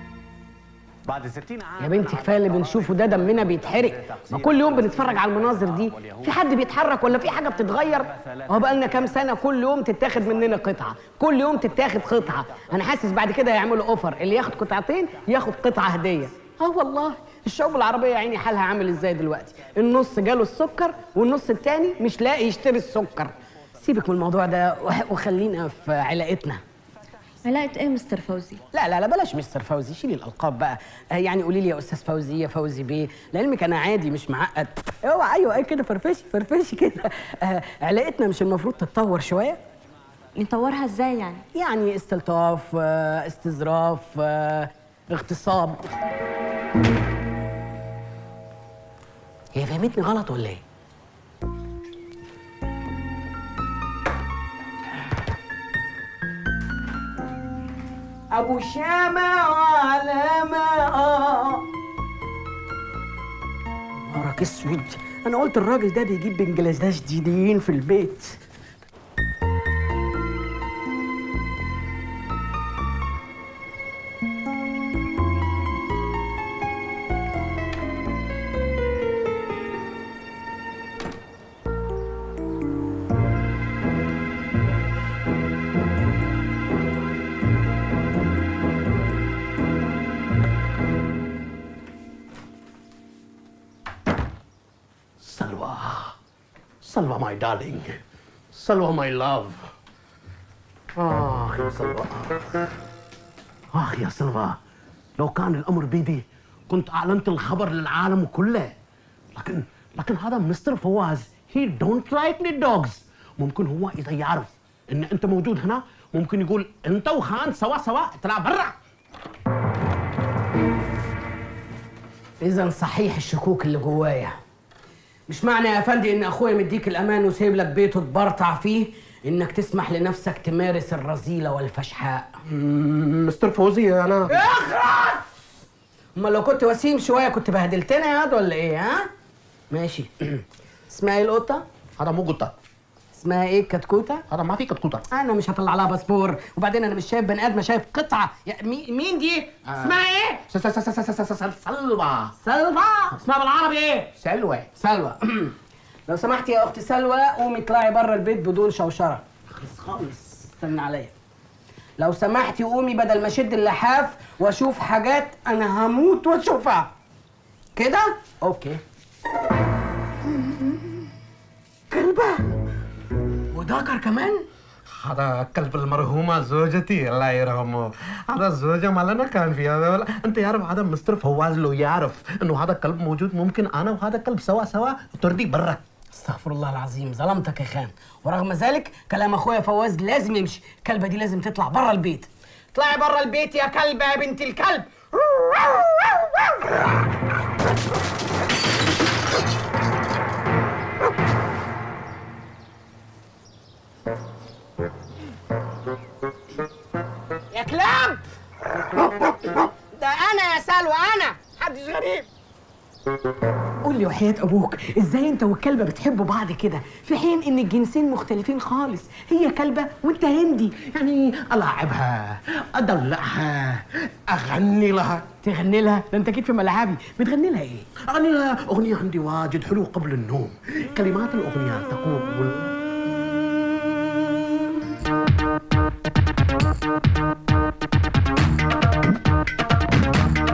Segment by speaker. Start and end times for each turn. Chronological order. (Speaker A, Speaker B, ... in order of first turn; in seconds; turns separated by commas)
Speaker A: 1.8-26.6, Speaker B: 27.4-28.6, Speaker A: 28.7-39.6, Speaker B: 40.4-41.4, Speaker A: 41.5-45.9, Speaker A: 49.5-50.6, Speaker A: 58.3-61.7, Speaker A: 64.1-68.4, Speaker C: 95.2-96.1, Speaker C: 96.8-98.0, Speaker C: 98.5-99.7, Speaker C: 101.0-102.5, Speaker C: 103.7-104.6, Speaker C: 105.2-108.7, Speaker C: 109.3-118.7, Speaker A: 122.4-124.4, Speaker A: 125.3-132.3, Speaker C: 132.5-134.4, Speaker A: 134.3-135.3, Speaker A: 136.2-139.1, Speaker A: 139.7-141.6, Speaker C: 142.0-142.5, Speaker A: 143.1-144.2, Speaker C: 144.3-145.0, Speaker A: 145.1-150.5, Speaker C: 150.5-152.3, Speaker A: 152.4-155.6, Speaker A: 156.1-161.1, Speaker A: 162.0-166.9, Speaker A: 167.8-168.8, Speaker A: 171.9-172.4, Speaker A: 173.5-174.4, Speaker C: 175.0-185.8, Speaker A: 186.1-196.6, Speaker A: 207.5-208.2, Speaker A: 208.8-212.3, Speaker A: 213.8-220.8, Speaker C: 220.8-225.2, Speaker A: 225.4-227.9, Speaker C: 228.0-232.7